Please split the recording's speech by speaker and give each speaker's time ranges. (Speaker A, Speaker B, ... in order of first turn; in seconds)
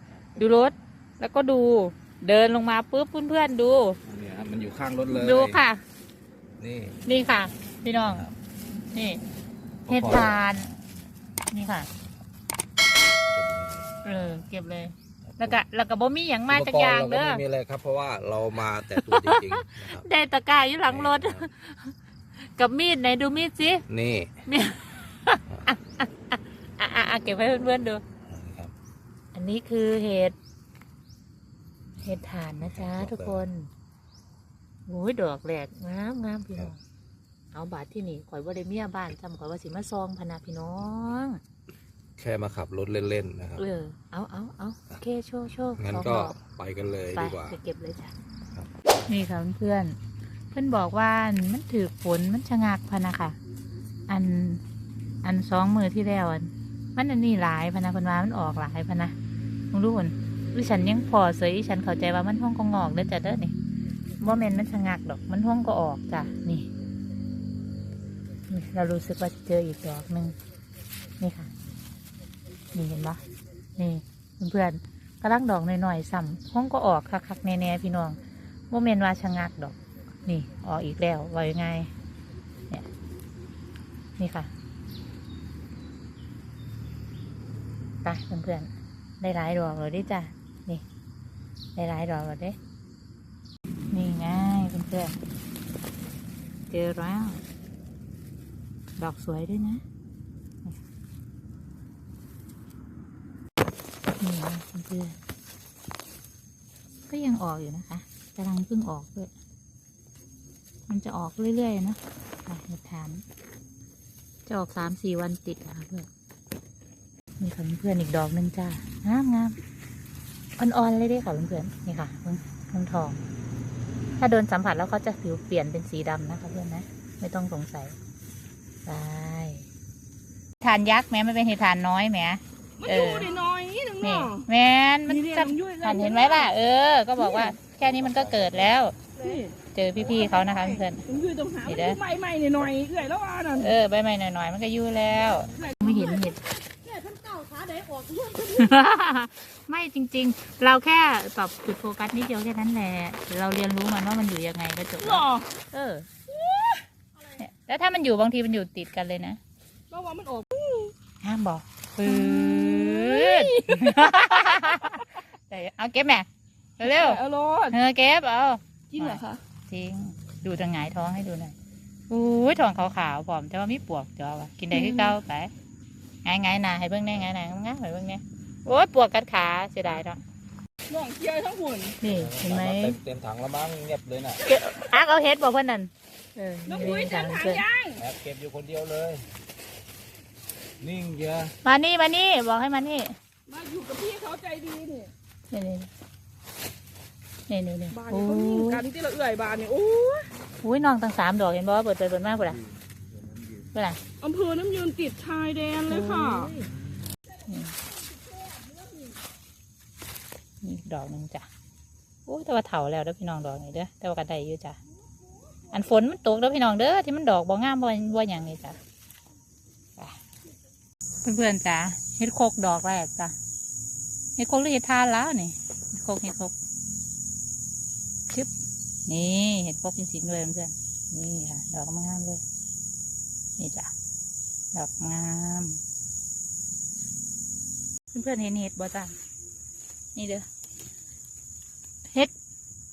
Speaker A: 0.4-4.0, 5.1-5.8, 7.0-8.3, 8.9-9.2, 9.9-10.7, 11.5-11.9, 14.1-17.4, 18.9-23.9, 24.5-28.0, 29.3-30.4, 32.0-33.7, 34.9-36.8, 37.5-41.4, 43.6-46.4, 47.1-48.1, 49.1-50.0, 50.5-53.4, 54.1-54.6, 55.2-59.1, 59.7-63.6, 64.2-66.7, 68.5-70.4, 71.2-71.5, 72.7-73.2, 73.8-81.9, 84.2-84.5, 88.0-90.8, 91.8-92.6, 93.9-95.2, 96.7-97.4, 99.0-99.8, 104.2-105.2, 107.1-109.3, 110.9-113.2, 114.5-116.1, 117.4-119.6, 120.6-123.2, 124.2-128.0, 128.8-129.7, 130.6-133.3, 134.0-139.0, 139.7-141.0, 141.7-142.0, 143.6-146.4, 148.4-156.1, 157.4-159.4, 161.2-166.3, 166.8-171.6, 172.1-175.5, 176.2-180.2, 182.0-183.0, 184.4-187.6, 191.6-193.1, 195.5-195.9, 197.5-198.8, 200.6-202.6, 203.7-204.0, 205.9-206.7, 207.5-207.7, 210.6-211.5, 212.3-214.8, 215.7-218.8, 221.2-223.3, 224.4-226.5, 229.1-232.4, 233.6-233.9, 234.7-235.8, 238.1-239.1, 240.2-240.5
Speaker B: 4.1-5.6, 6.6-7.0, 8.1-8.3, 9.9-10.4, 13.3-13.9, 15.3-15.6, 16.5-20.1, 20.9-21.5, 23.9-24.4, 28.2-28.7, 32.6-33.5, 42.2-43.6, 45.8-47.6, 137.8-138.8, 182.1-184.4, 188.0-189.2, 190.8-191.5, 203.3-203.6
Speaker C: 132.8-134.4, 135.1-136.5, 137.2-137.6, 139.2-143.8, 145.5-148.7, 155.0-155.5, 156.3-156.9, 159.9-160.9, 162.1-165.2, 166.8-167.8, 168.9-169.4, 174.7-175.2, 180.9-182.0, 186.7-188.0, 193.5-195.1, 197.9-200.3, 204.2-206.5, 208.8-209.1